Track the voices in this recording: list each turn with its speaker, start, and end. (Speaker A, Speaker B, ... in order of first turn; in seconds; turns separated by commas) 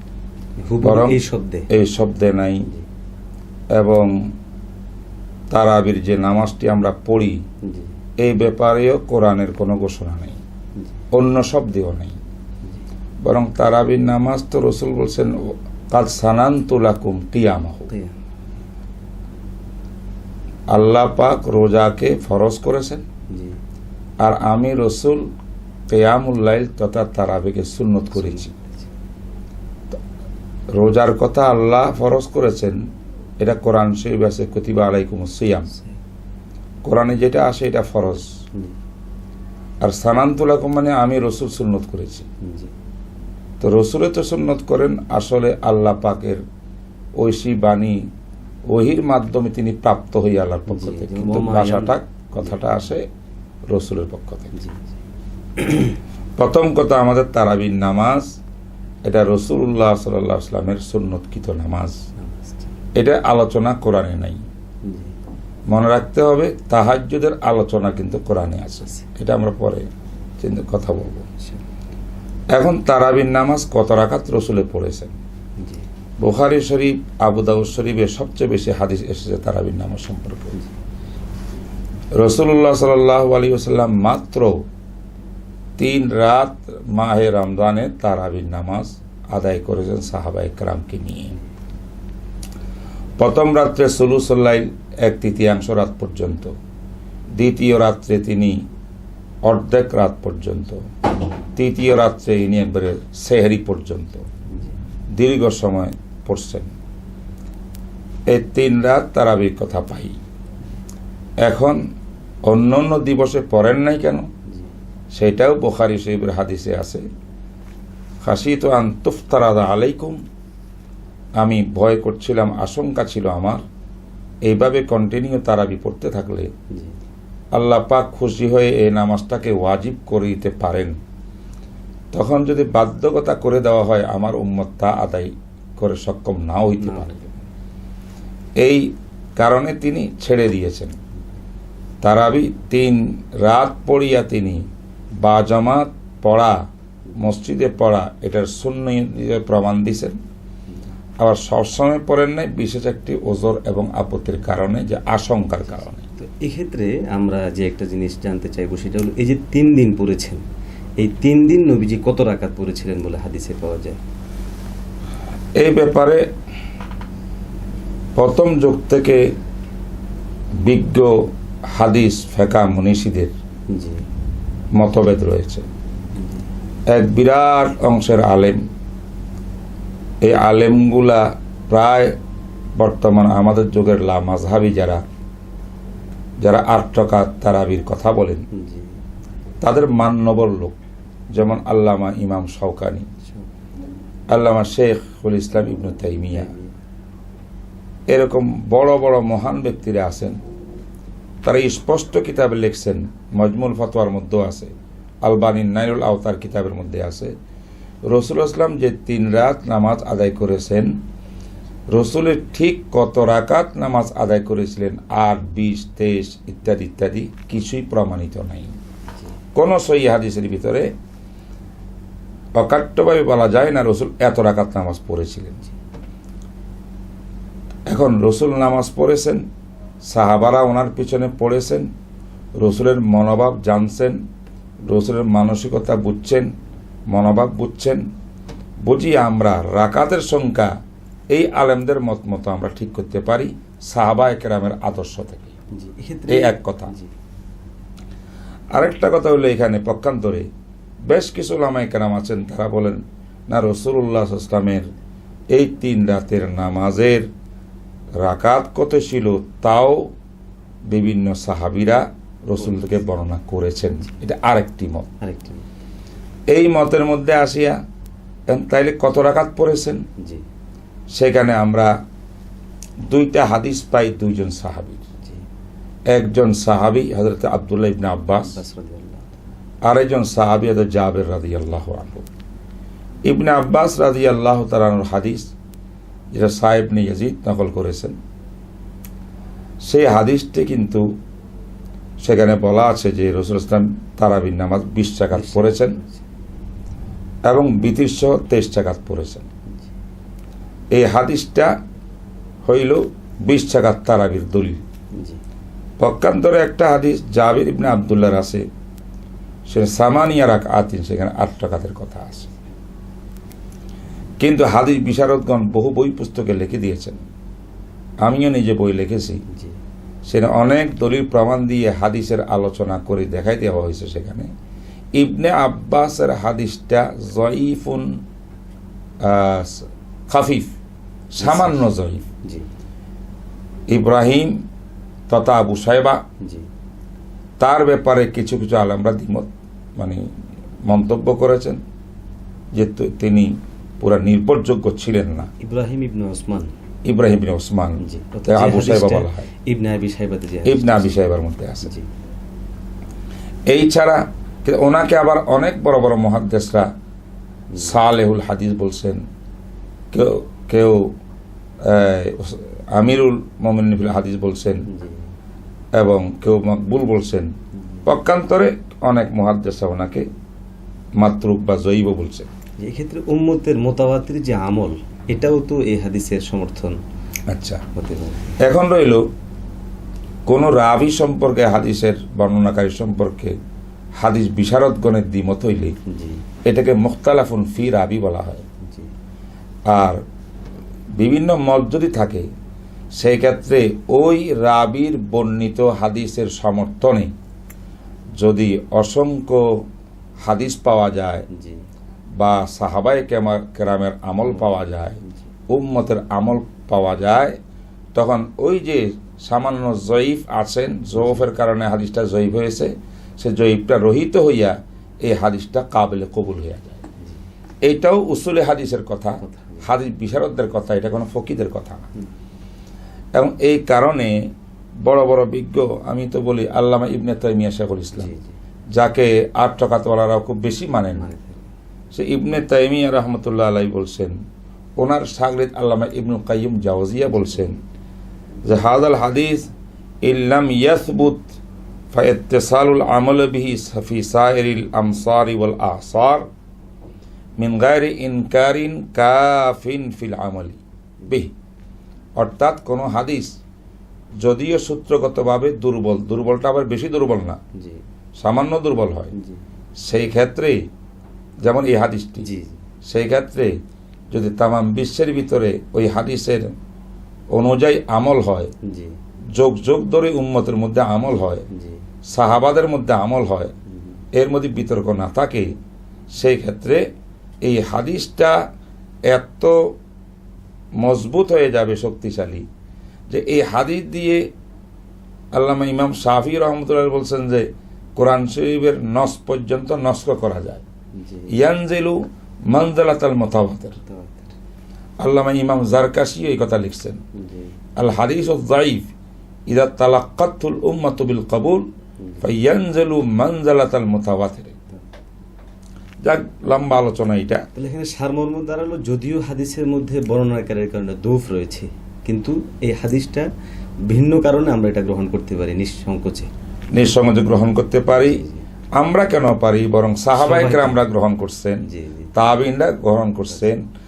Speaker A: 0.6-1.7, Speaker B: 0.8-1.2, Speaker B: 1.7-2.7, Speaker B: 3.8-4.1, Speaker B: 5.5-7.4, Speaker A: 7.7-7.9, Speaker B: 8.2-10.4, Speaker B: 11.1-12.2, Speaker B: 13.2-15.3, Speaker B: 15.9-17.9, Speaker A: 17.9-18.1, Speaker B: 20.7-23.0, Speaker A: 23.3-23.6, Speaker B: 24.2-25.2, Speaker B: 25.9-28.5, Speaker A: 28.1-28.9, Speaker B: 30.7-32.8, Speaker B: 33.4-35.7, Speaker B: 36.9-38.3, Speaker B: 39.8-42.3, Speaker A: 42.4-42.7, Speaker B: 43.6-46.4, Speaker B: 47.2-48.0, Speaker B: 48.7-53.1, Speaker A: 50.7-52.8, Speaker B: 53.7-54.5, Speaker A: 54.5-54.9, Speaker B: 56.4-58.3, Speaker B: 59.1-62.0, Speaker A: 62.2-62.7, Speaker B: 63.0-64.4, Speaker A: 64.8-65.1, Speaker B: 65.7-69.9, Speaker B: 70.4-71.3, Speaker B: 72.5-75.1, Speaker B: 76.2-80.6, Speaker B: 82.2-84.6, Speaker B: 85.8-91.3, Speaker B: 93.2-96.5, Speaker B: 97.4-98.6, Speaker B: 99.4-100.8, Speaker B: 101.5-104.2, Speaker B: 105.2-106.7, Speaker B: 108.3-110.2, Speaker B: 111.4-111.8, Speaker B: 112.5-114.3, Speaker B: 115.1-117.0, Speaker B: 118.2-120.2, Speaker B: 121.4-123.6, Speaker B: 124.5-126.5, Speaker A: 126.7-127.0, Speaker B: 127.5-131.0, Speaker B: 132.1-137.2, Speaker A: 136.8-137.3, Speaker B: 138.6-140.9, Speaker B: 142.0-144.7, Speaker B: 145.2-146.6, Speaker B: 147.2-150.2, Speaker B: 151.2-156.0, Speaker A: 156.2-160.4, Speaker A: 161.0-164.0, Speaker B: 165.6-166.2, Speaker B: 168.2-169.2, Speaker B: 170.6-173.3, Speaker A: 173.7-174.0, Speaker B: 174.8-175.7, Speaker A: 176.2-176.4, Speaker B: 176.9-178.6, Speaker B: 180.2-182.2, Speaker B: 182.8-185.0, Speaker B: 186.4-188.4, Speaker A: 188.5-188.9, Speaker B: 189.6-190.8, Speaker B: 191.3-193.1, Speaker B: 194.3-196.5, Speaker A: 196.3-196.7, Speaker B: 198.1-200.4, Speaker B: 201.4-204.7, Speaker B: 205.2-207.3, Speaker B: 208.0-211.0, Speaker B: 211.9-218.8, Speaker B: 219.6-220.9, Speaker B: 222.6-225.6, Speaker B: 227.9-229.4, Speaker B: 230.1-231.9, Speaker B: 232.6-234.2, Speaker B: 234.9-236.5, Speaker B: 237.1-238.0, Speaker B: 238.8-240.7, Speaker B: 241.3-245.5, Speaker A: 245.8-247.1, Speaker B: 246.3-246.9, Speaker B: 248.7-250.5, Speaker B: 251.1-254.9, Speaker B: 255.5-257.3, Speaker B: 258.2-260.1, Speaker B: 260.9-265.1, Speaker A: 265.2-265.7, Speaker B: 266.5-267.8, Speaker B: 268.5-270.0, Speaker B: 271.1-271.9, Speaker B: 273.1-275.0, Speaker B: 276.1-278.6, Speaker A: 278.4-279.4, Speaker B: 279.9-282.3, Speaker B: 283.3-285.5, Speaker B: 286.3-288.2, Speaker B: 289.9-291.1, Speaker B: 292.2-296.0, Speaker A: 295.3-296.2, Speaker B: 297.5-299.5, Speaker B: 300.9-301.7, Speaker B: 302.6-304.8, Speaker B: 306.0-308.6, Speaker B: 309.7-312.5, Speaker B: 314.4-317.2, Speaker B: 318.2-319.4, Speaker A: 319.5-319.8, Speaker B: 320.3-324.5, Speaker B: 325.2-328.2, Speaker B: 329.2-330.7, Speaker B: 331.3-332.2, Speaker A: 331.4-331.8, Speaker B: 333.9-334.6, Speaker B: 335.3-336.2, Speaker A: 336.4-336.7, Speaker B: 337.6-340.2, Speaker B: 340.9-341.8, Speaker B: 342.7-345.5, Speaker A: 345.5-346.7, Speaker B: 347.1-349.5, Speaker A: 348.0-352.1, Speaker B: 350.6-351.9, Speaker B: 353.7-356.9, Speaker A: 357.7-358.0, Speaker B: 357.8-359.2, Speaker B: 360.1-361.1, Speaker B: 361.9-364.9, Speaker A: 364.9-365.3, Speaker B: 366.0-367.5, Speaker B: 368.1-370.3, Speaker B: 371.2-372.5, Speaker A: 372.8-377.0, Speaker B: 377.5-377.8, Speaker A: 377.9-378.5, Speaker B: 378.6-379.2, Speaker B: 380.5-383.5, Speaker B: 384.2-385.9, Speaker A: 386.1-386.4, Speaker B: 386.7-388.7, Speaker A: 388.8-389.1, Speaker B: 389.9-390.2, Speaker B: 391.2-392.5, Speaker B: 393.2-397.3, Speaker B: 398.4-399.8, Speaker B: 400.4-401.5, Speaker A: 401.5-401.8, Speaker B: 402.4-407.6, Speaker B: 408.1-417.0, Speaker A: 411.2-411.5, Speaker B: 417.8-422.1, Speaker A: 419.4-419.8, Speaker B: 423.4-424.4, Speaker B: 425.0-428.3, Speaker A: 428.2-428.5, Speaker B: 428.9-431.3, Speaker A: 431.1-431.7, Speaker B: 432.1-434.4, Speaker B: 435.0-437.8, Speaker B: 438.7-439.7, Speaker B: 440.2-441.5, Speaker B: 442.1-446.5, Speaker B: 447.6-451.5, Speaker B: 452.4-453.6, Speaker B: 454.4-457.6, Speaker A: 457.8-458.0, Speaker B: 458.4-459.3, Speaker A: 459.3-459.6, Speaker B: 460.1-460.8, Speaker B: 461.6-462.5, Speaker A: 462.4-462.8, Speaker B: 463.1-463.8, Speaker B: 464.3-466.7, Speaker B: 467.5-468.7, Speaker A: 468.8-469.2, Speaker B: 469.6-471.7, Speaker A: 471.7-472.0, Speaker B: 472.3-473.7, Speaker B: 474.3-475.7, Speaker B: 476.4-477.0, Speaker B: 477.6-478.6, Speaker B: 479.3-479.9, Speaker B: 481.0-482.6, Speaker B: 483.3-484.4, Speaker B: 485.5-490.8, Speaker A: 491.2-491.6, Speaker B: 491.5-494.0, Speaker A: 494.0-494.5, Speaker B: 495.2-497.2, Speaker A: 497.4-497.7, Speaker B: 498.0-499.1, Speaker B: 499.7-501.9, Speaker B: 502.4-504.8, Speaker B: 506.2-507.6, Speaker A: 507.8-513.5, Speaker A: 514.1-516.5, Speaker B: 516.9-518.4, Speaker A: 518.1-518.6, Speaker B: 519.0-523.8, Speaker A: 520.3-521.0, Speaker A: 521.9-522.4